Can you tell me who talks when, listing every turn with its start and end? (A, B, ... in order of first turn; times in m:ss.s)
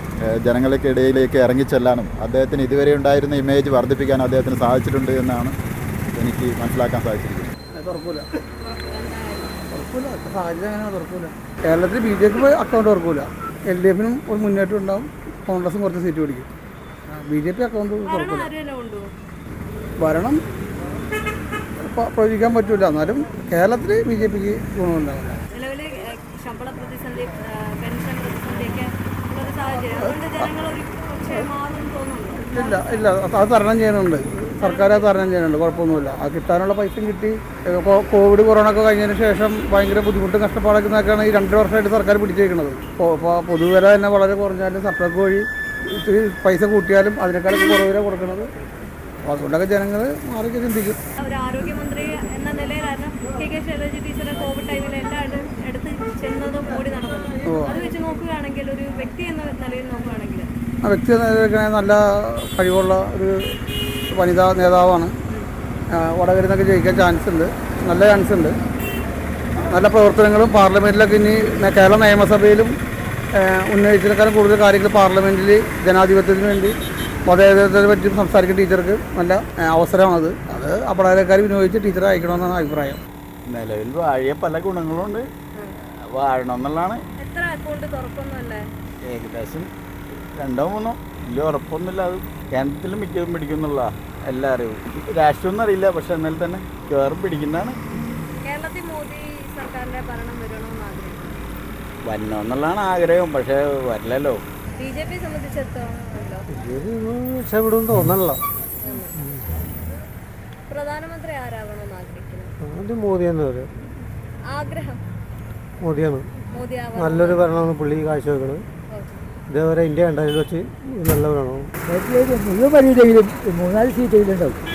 0:00.3-0:05.5 A
0:06.2-0:07.5 A
0:07.7-0:08.2 B
0:08.6-0:09.6 C
0:09.7-0:16.5 B
0:17.1-0:18.5 B
0:18.0-0:19.1 C
0:20.0-0:20.4 B
0:21.8-0:25.4 B
0:25.5-0:33.1 C
0:30.0-0:30.5 B
0:32.4-0:48.5 B
0:34.6-0:35.4 C
0:49.2-0:51.0 B
0:51.2-1:00.5 C
0:57.4-0:57.7 B
1:00.8-1:03.4 B
1:04.1-1:05.1 B
1:05.9-1:08.5 B
1:09.6-1:12.7 B
1:13.4-1:16.7 B
1:17.2-1:23.0 B
1:23.5-1:25.2 D
1:26.1-1:27.0 D
1:27.2-1:28.6 C
1:29.1-1:29.7 D
1:30.4-1:37.8 D
1:38.4-1:41.3 C
1:42.0-1:44.4 D
1:44.8-1:46.4 C
1:46.5-1:49.4 E
1:48.8-1:49.1 C
1:50.7-1:52.5 C
1:52.6-1:53.7 E
1:54.5-1:55.0 C
1:55.8-1:56.2 E
1:56.5-1:57.5 C
1:56.9-1:58.6 E
1:58.9-1:59.2 C
1:59.5-2:01.7 E
2:01.9-2:04.6 F